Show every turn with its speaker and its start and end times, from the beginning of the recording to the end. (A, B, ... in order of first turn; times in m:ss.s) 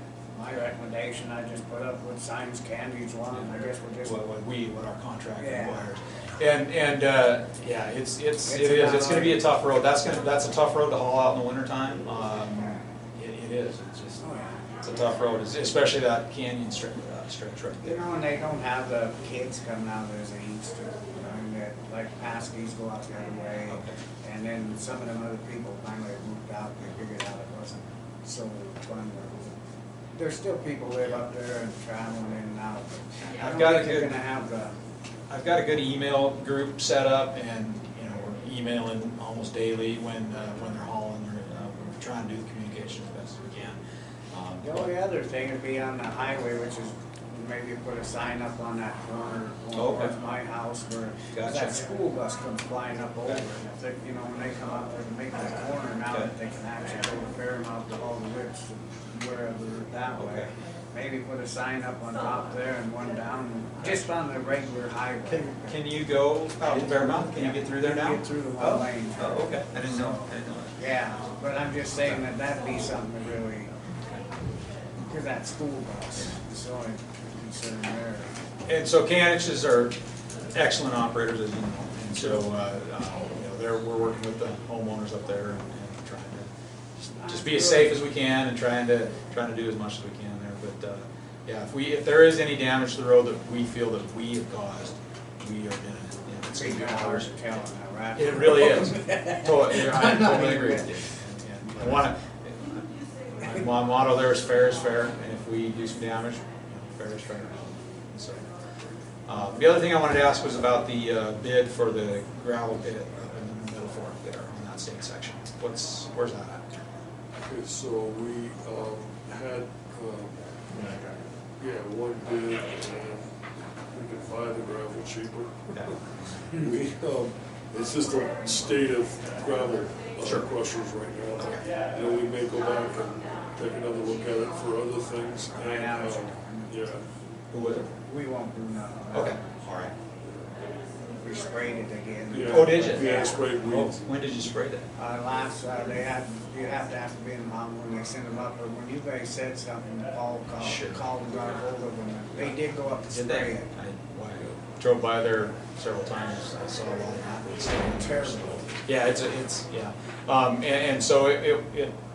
0:00.3-0:04.2 A
0:04.0-0:14.2 B
0:05.4-0:05.9 A
0:08.5-0:09.4 A
0:14.2-0:15.0 A
0:14.8-0:18.0 B
0:17.8-0:29.5 A
0:23.7-0:24.0 B
0:30.2-0:34.7 A
0:33.4-0:34.2 B
0:35.3-0:43.8 B
0:44.3-0:44.9 B
0:44.6-1:05.8 A
0:49.8-0:50.1 B
0:51.3-0:51.8 B
1:00.2-1:00.5 B
1:05.3-1:10.8 B
1:06.7-1:13.7 A
1:15.0-1:18.3 A
1:18.7-1:20.0 B
1:20.5-1:26.5 B
1:27.1-1:37.3 B
1:27.2-1:28.0 A
1:36.5-1:41.2 A
1:38.2-1:48.5 B
1:41.8-1:42.0 A
1:49.3-1:56.7 B
1:57.5-2:00.4 C
2:00.8-2:01.1 B
2:01.6-2:03.2 C
2:03.9-2:17.0 C
2:05.7-2:06.3 B
2:10.2-2:10.5 B
2:15.5-2:17.0 A
2:17.5-2:17.9 B
2:18.0-2:19.5 A
2:19.1-2:19.9 B
2:21.1-2:23.5 A
2:22.3-2:24.0 C
2:22.5-2:24.9 B
2:25.0-2:33.7 A
2:30.6-2:31.0 B
2:33.1-2:42.0 B
2:37.8-2:38.7 A